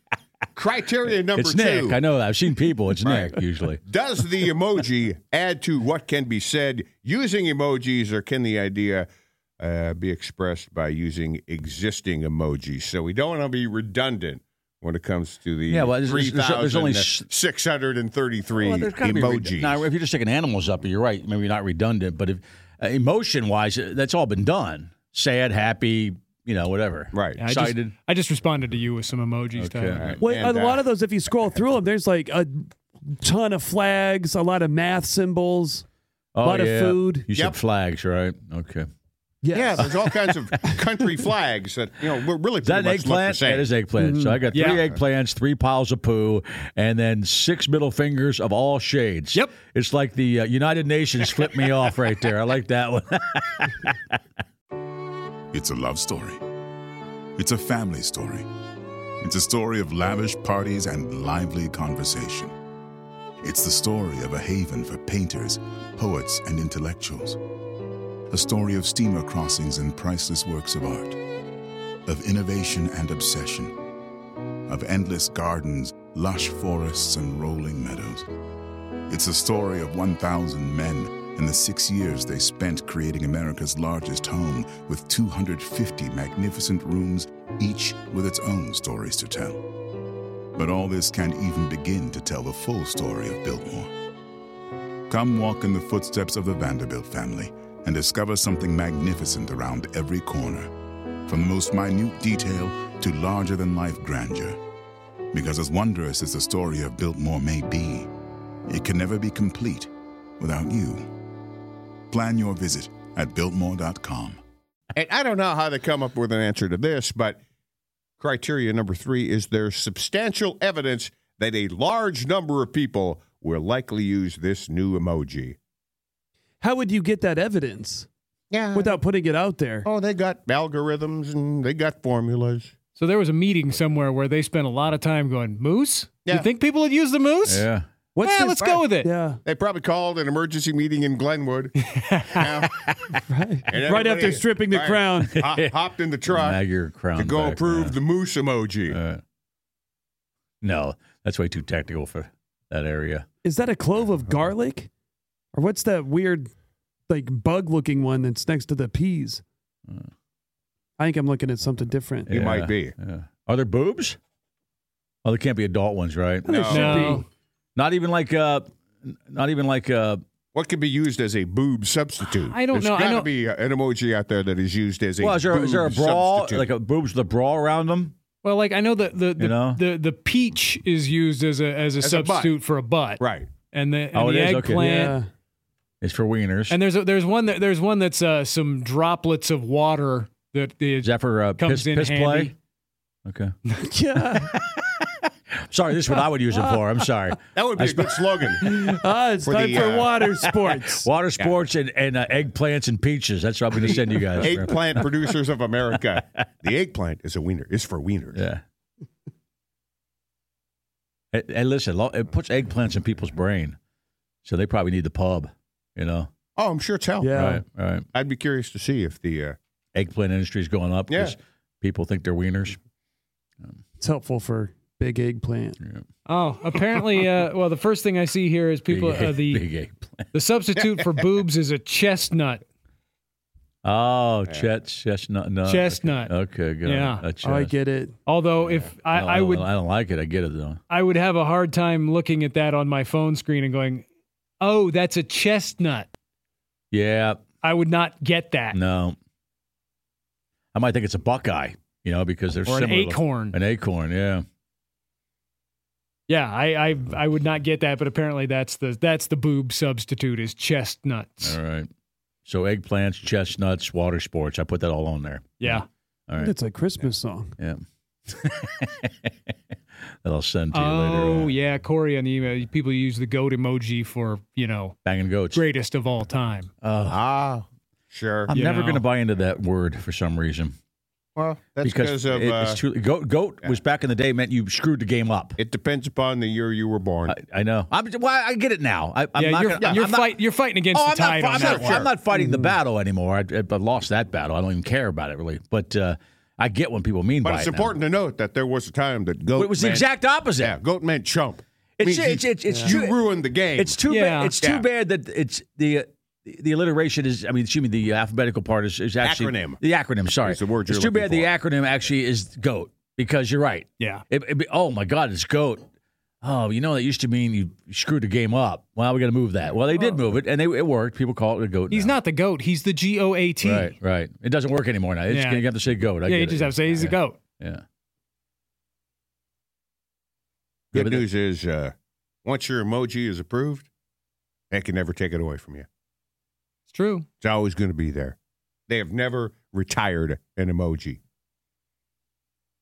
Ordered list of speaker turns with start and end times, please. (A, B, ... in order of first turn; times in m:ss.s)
0:00.5-0:02.0 A
0:01.3-0:03.8 B
0:03.0-0:09.1 A
0:09.6-0:19.9 A
0:15.7-0:17.2 B
0:18.5-0:27.9 B
0:27.1-0:27.4 A
0:27.4-0:30.0 C
0:29.5-0:30.2 B
0:30.0-0:30.8 A
0:30.2-0:35.8 D
0:36.4-0:38.9 B
0:36.4-0:37.3 D
0:37.3-0:37.6 A
0:39.4-0:40.0 D
0:39.5-0:43.7 A
0:42.6-0:53.9 B
0:44.0-0:44.5 D
0:44.5-0:44.8 C
0:44.6-0:45.0 A
0:55.5-0:56.4 E
0:57.4-0:58.5 E
0:59.2-1:02.5 E
1:03.4-1:07.4 E
1:08.3-1:11.2 E
1:12.0-1:13.8 E
1:14.7-1:18.3 E
1:19.1-1:29.6 E
1:30.6-1:33.9 E
1:35.1-1:40.7 E
1:41.3-1:44.6 E
1:45.3-1:48.1 E
1:48.7-1:51.1 E
1:52.1-1:54.4 E
1:54.9-1:57.4 A
1:58.2-2:05.6 A
2:06.6-2:08.1 D
2:08.5-2:09.0 A
2:08.7-2:09.9 D
2:09.8-2:12.7 A
2:13.0-2:17.7 C
2:17.4-2:17.8 B
2:18.1-2:19.4 D
2:18.2-2:19.1 C
2:18.6-2:18.9 A
2:19.4-2:21.7 A
2:21.8-2:22.5 C
2:22.3-2:22.7 A
2:23.2-2:25.3 D
2:23.7-2:26.6 A
2:25.2-2:25.7 B
2:26.2-2:28.0 B
2:27.1-2:29.0 A
2:28.9-2:29.2 B
2:30.6-2:33.2 B
2:33.4-2:34.9 D
2:35.5-2:36.5 D
2:37.1-2:39.4 D
2:41.0-2:42.3 D
2:42.3-2:44.2 B
2:42.3-2:42.9 A
2:45.2-2:47.1 B
2:46.4-2:47.2 D
2:46.5-2:47.0 A
2:46.7-2:47.2 C
2:47.8-2:50.2 B
2:50.5-2:56.7 A
2:52.4-2:53.3 C
2:55.2-2:58.1 B
2:58.4-3:05.1 C
2:59.4-2:59.8 B
3:02.0-3:02.5 A
3:03.2-3:03.5 A
3:04.1-3:04.8 B
3:04.6-3:05.3 D
3:06.0-3:06.8 B
3:06.7-3:12.5 C
3:11.0-3:12.5 B
3:13.2-3:13.5 B
3:13.7-3:14.6 D
3:14.5-3:15.0 B
3:15.6-3:18.1 B
3:16.5-3:17.0 D
3:17.5-3:18.8 A
3:18.6-3:21.1 D
3:19.4-3:20.2 A
3:20.4-3:25.1 B
3:23.7-3:28.4 A
3:28.3-3:28.6 B
3:31.3-3:33.8 B
3:34.4-3:36.3 B
3:36.6-3:37.3 A
3:37.2-3:37.6 D
3:37.3-3:38.0 B
3:38.1-3:39.6 A
3:39.9-3:42.8 B
3:41.1-3:41.3 A
3:44.0-3:45.8 D
3:46.2-3:49.6 C
3:48.9-3:50.2 B
3:50.3-3:52.6 C
3:50.8-3:51.3 A
3:53.8-3:57.7 B
3:55.6-3:57.2 C
3:57.4-3:58.2 D
3:58.2-3:59.7 C
3:58.7-4:00.8 B
4:00.9-4:04.0 C
4:04.6-4:06.1 C
4:06.9-4:07.4 B
4:07.6-4:08.8 C
4:08.7-4:09.2 B
4:10.7-4:14.4 B
4:12.6-4:13.6 C
4:16.3-4:21.6 C
4:21.4-4:21.9 B
4:22.4-4:26.5 B
4:25.6-4:25.8 C
4:26.4-4:27.5 D
4:27.6-4:29.3 B
4:30.2-4:31.5 B
4:30.7-4:35.0 C
4:35.0-4:35.6 B
4:35.5-4:36.7 C
4:36.8-4:37.2 B
4:37.0-4:38.5 A
4:38.4-4:40.7 B
4:38.5-4:39.0 C
4:41.4-4:42.8 A
4:41.8-4:45.6 B
4:45.6-4:47.3 A
4:47.3-4:50.4 B
4:49.3-4:52.0 C
4:49.8-4:50.0 A
4:50.9-4:57.9 B
4:51.5-4:52.1 A
4:52.3-4:52.8 D
4:57.4-5:04.0 A
4:59.5-5:00.8 B
5:02.0-5:15.8 B
5:02.7-5:03.0 D
5:04.0-5:04.6 C
5:04.6-5:04.9 A
5:09.2-5:09.8 A
5:10.4-5:11.5 A
5:14.0-5:14.2 C
5:16.4-5:22.1 B
5:19.9-5:20.2 C
5:21.9-5:23.9 C
5:23.6-5:27.8 B
5:25.3-5:25.7 C
5:26.2-5:27.4 C
5:30.9-5:31.2 B
5:30.9-5:31.9 A
5:32.4-5:33.9 A
5:34.7-5:35.8 A
5:36.9-5:37.3 C
5:37.4-5:38.4 A
5:38.9-5:41.2 A